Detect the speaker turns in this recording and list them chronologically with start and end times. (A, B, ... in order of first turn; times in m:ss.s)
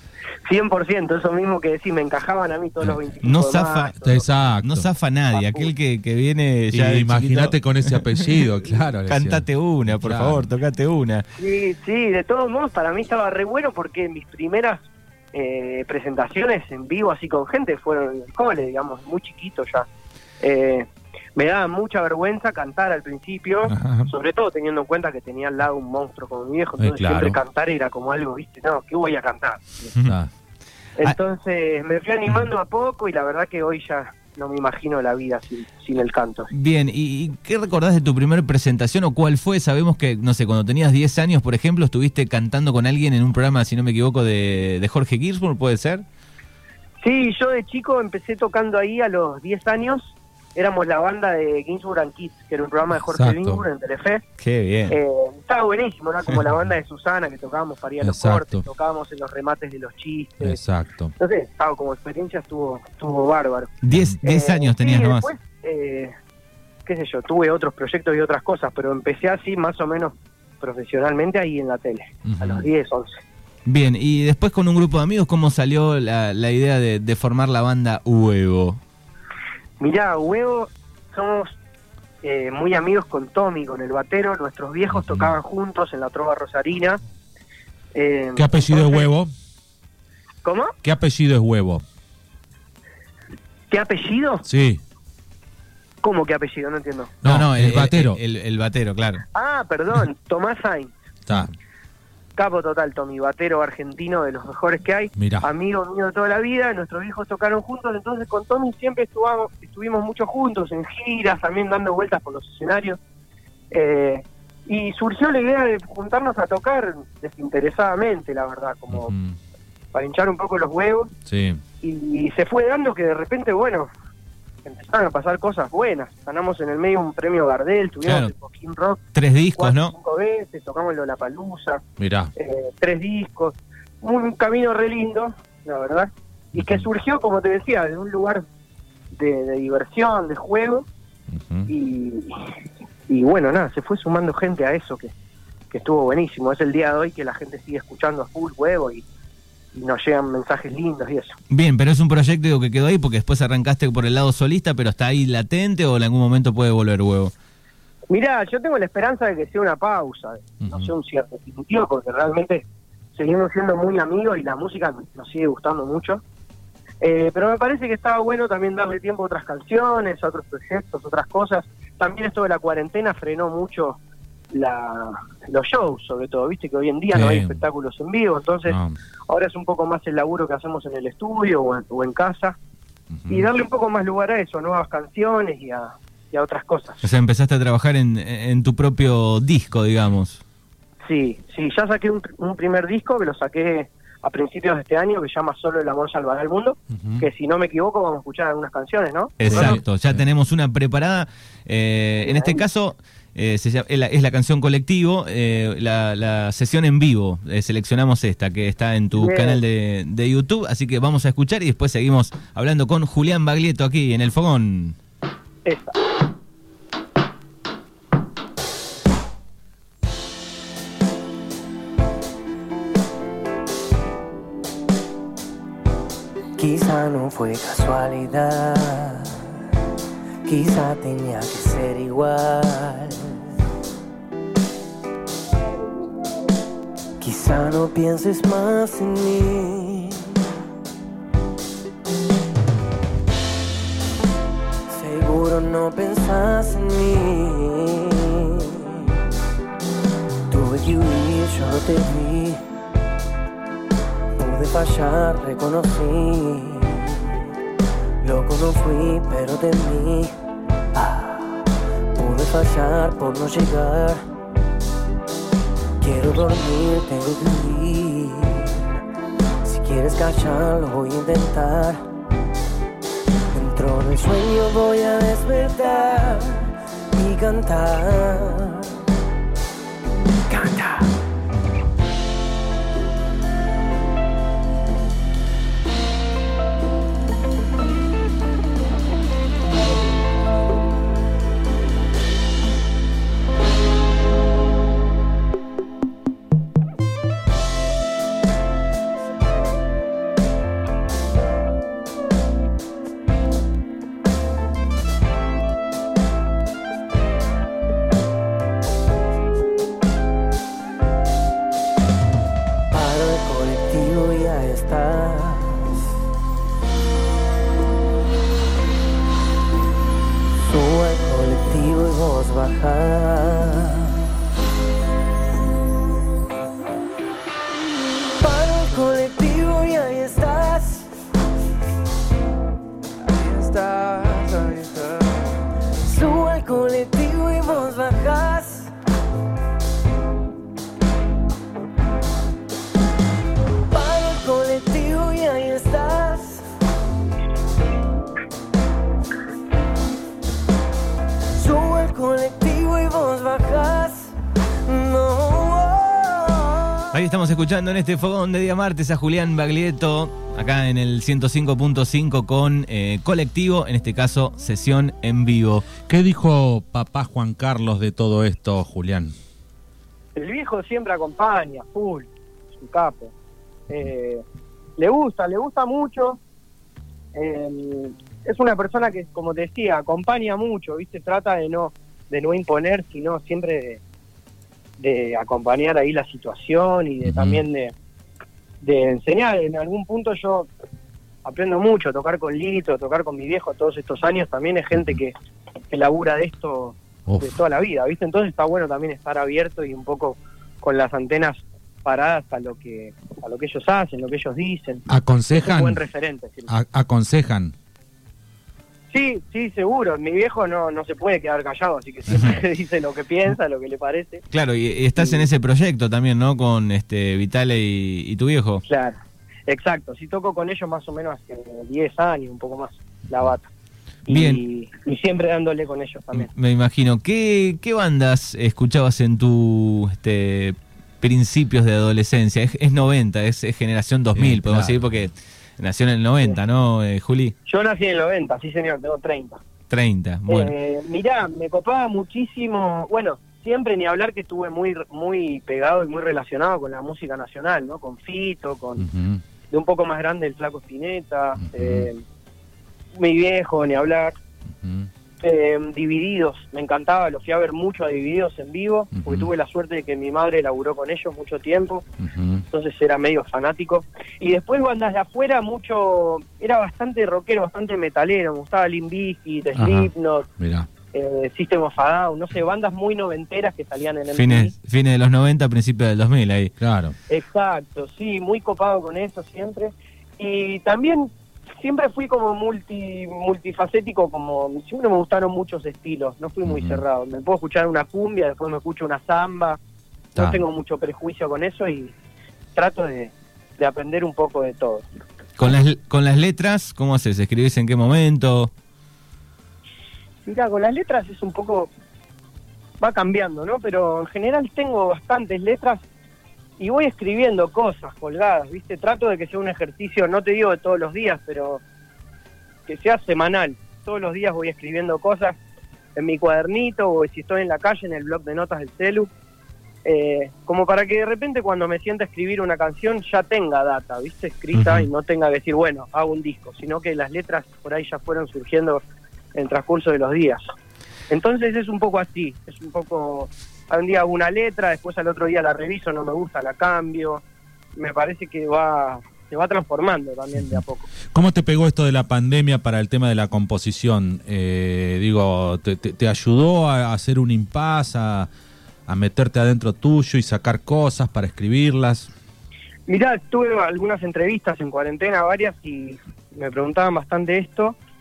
0:00.4-0:04.2 A
0:03.2-0:03.9 B
0:04.0-0:04.8 C
0:04.6-0:08.4 B
0:05.3-0:05.7 A
0:06.7-0:10.5 C
0:09.1-0:11.2 B
0:11.4-0:19.9 A
0:20.4-0:29.9 A
0:23.6-0:24.1 C
0:26.8-0:27.4 C
0:31.0-0:36.5 A
0:36.5-0:46.0 B
0:47.0-0:54.2 A
0:53.0-0:53.6 C
0:54.4-0:55.0 B
0:54.9-1:00.6 A
0:58.0-0:58.6 C
1:00.4-1:01.1 C
1:01.2-1:06.1 A
1:03.8-1:05.3 B
1:03.9-1:04.2 C
1:06.8-1:13.2 A
1:12.2-1:12.6 C
1:13.6-1:18.8 B
1:19.8-1:21.6 A
1:22.2-1:27.0 A
1:24.9-1:25.3 C
1:27.9-1:29.1 A
1:28.4-1:29.3 C
1:30.4-1:30.7 A
1:30.8-1:31.8 C
1:33.7-1:34.4 A
1:34.4-1:34.8 C
1:36.0-1:37.1 A
1:37.2-1:38.2 C
1:37.2-1:39.2 B
1:39.3-1:40.9 A
1:41.3-1:41.5 C
1:42.4-1:53.0 A
1:45.2-1:45.5 C
1:53.7-1:59.1 A
1:58.9-1:59.4 C
1:59.9-2:01.1 A
2:01.3-2:01.6 C
2:01.8-2:03.9 A
2:04.6-2:09.0 A
2:08.0-2:08.3 B
2:09.1-2:09.9 B
2:09.6-2:11.8 A
2:12.0-2:12.3 C
2:12.4-2:18.4 A
2:16.5-2:16.8 C
2:19.1-2:20.8 A
2:21.3-2:21.7 C
2:21.7-2:22.5 A
2:23.1-2:25.1 A
2:25.7-2:29.0 A
2:29.7-2:31.4 A
2:31.5-2:37.3 B
2:38.1-2:46.2 A
2:40.6-2:40.9 C
2:47.0-2:54.0 A
2:54.5-2:58.8 A
2:57.1-2:57.6 C
2:58.6-2:59.0 C
2:59.3-3:02.5 A
3:03.1-3:03.5 C
3:03.3-3:07.0 A
3:07.0-3:10.4 B
3:11.0-3:19.8 A
3:16.9-3:17.2 C
3:19.4-3:35.0 B
3:19.5-3:20.2 C
3:22.2-3:22.6 A
3:29.2-3:29.6 A
3:35.6-3:36.0 A
3:46.6-3:49.5 D
3:50.4-3:53.4 D
3:57.2-4:00.4 D
4:04.9-4:09.2 D
4:10.5-4:12.6 D
4:14.4-4:17.4 D
4:18.2-4:20.3 D
4:20.9-4:21.6 D
4:22.1-4:24.2 D
4:26.0-4:28.8 D
4:29.6-4:32.0 D
4:33.5-4:39.0 D
4:40.5-4:41.1 D
5:12.9-5:16.0 D
5:20.6-5:24.3 D
5:28.4-5:31.1 D
5:33.2-5:38.9 D
5:43.9-5:46.7 D
5:51.5-5:57.0 D
5:57.1-6:05.8 B
6:06.1-6:09.3 C
6:10.3-6:13.3 A
6:13.9-6:14.4 A
6:15.0-6:16.4 A
6:17.3-6:24.0 A
6:25.0-6:27.9 A
6:27.2-6:27.6 C
6:28.8-6:30.7 A
6:31.4-6:35.3 A
6:35.9-6:46.7 A
6:37.3-6:37.6 C
6:45.1-6:46.0 C
6:46.7-6:47.7 C
6:49.1-6:54.4 A
6:54.5-6:58.8 B
6:58.9-7:03.7 A
7:04.2-7:06.5 A
7:04.3-7:04.6 B
7:06.3-7:17.5 B
7:14.3-7:15.3 C
7:17.6-7:19.6 A
7:19.9-7:20.7 B
7:20.5-7:29.1 A
7:29.0-7:29.4 C
7:29.7-7:32.2 A
7:31.6-7:32.1 C
7:33.1-7:34.3 A
7:34.8-7:35.1 C
7:35.4-7:42.0 A
7:39.2-7:39.5 C
7:42.2-7:42.6 C
7:42.7-7:50.5 A
7:49.8-7:50.9 C
7:51.1-7:54.7 A
7:54.3-7:56.7 B
7:56.8-7:57.1 C
7:57.3-8:09.8 A
8:06.6-8:07.0 C
8:10.3-8:12.1 A
8:12.8-8:15.0 A
8:15.6-8:18.7 B
8:20.4-8:21.9 A
8:23.0-8:26.0 A
8:26.8-8:31.8 A
8:32.9-8:35.5 A
8:36.2-8:39.3 A
8:40.0-8:49.0 A
8:44.8-8:45.0 C
8:49.5-8:50.7 A
8:51.3-8:57.4 A
8:58.0-9:01.1 A
9:01.3-9:08.5 C
9:09.1-9:12.3 C
9:13.1-9:18.0 A